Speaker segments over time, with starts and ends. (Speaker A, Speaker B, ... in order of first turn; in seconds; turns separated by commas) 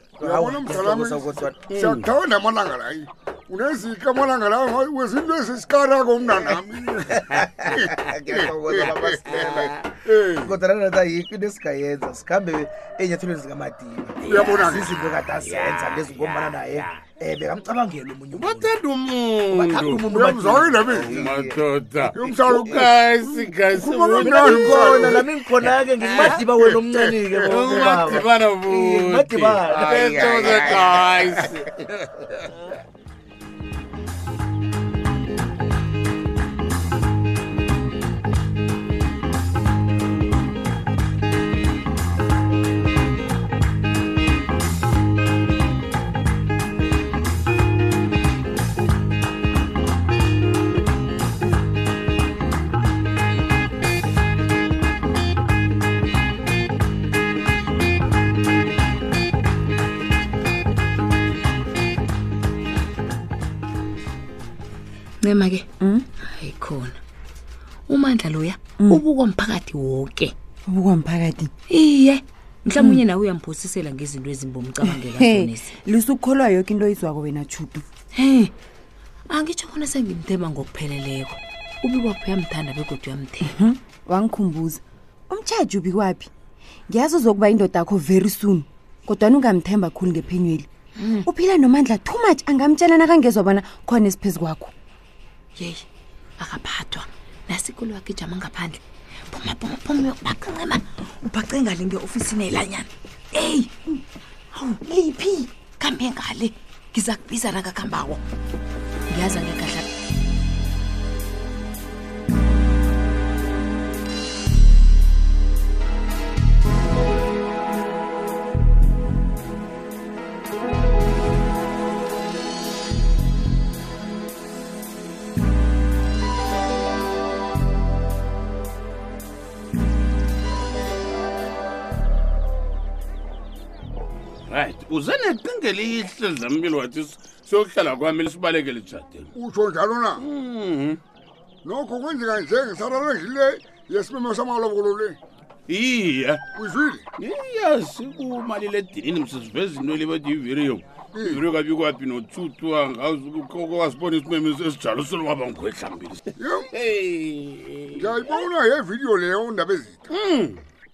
Speaker A: 0.2-1.6, Speaker B: 0.2-7.9, Speaker C: 1.7-2.1, Speaker A: 7.3-9.8, Speaker C: 8.8-9.7, Speaker B: 9.3-10.5, Speaker A: 10.4-18.7, Speaker C: 14.2-17.0, Speaker B: 14.3-14.8, Speaker C: 18.3-20.1, Speaker A: 19.5-21.6, Speaker B: 20.1-21.1, Speaker C: 20.8-26.4, Speaker B: 22.1-25.2, Speaker A: 24.2-31.5, Speaker B: 26.1-27.5, Speaker C: 27.4-32.4, Speaker D: 65.2-65.7, Speaker D: 66.3-67.0, Speaker D: 67.9-70.3, Speaker E: 70.7-71.5, Speaker D: 71.7-75.8, Speaker E: 74.9-77.8, Speaker D: 78.2-78.5, Speaker D: 79.3-83.6, Speaker E: 83.5-86.3, Speaker E: 86.9-90.7, Speaker D: 91.0-91.3, Speaker E: 91.2-94.7, Speaker D: 95.6-95.8, Speaker D: 96.4-103.7, Speaker D: 104.5-108.2, Speaker D: 109.1-109.8, Speaker C: 134.5-139.3, Speaker B: 139.3-140.2, Speaker C: 140.2-141.0, Speaker B: 141.7-145.2, Speaker C: 145.7-146.4, Speaker B: 146.6-147.0, Speaker C: 147.2-158.4, Speaker B: 151.1-151.4, Speaker B: 156.4-156.7, Speaker B: 158.0-160.1, Speaker C: 160.1-160.6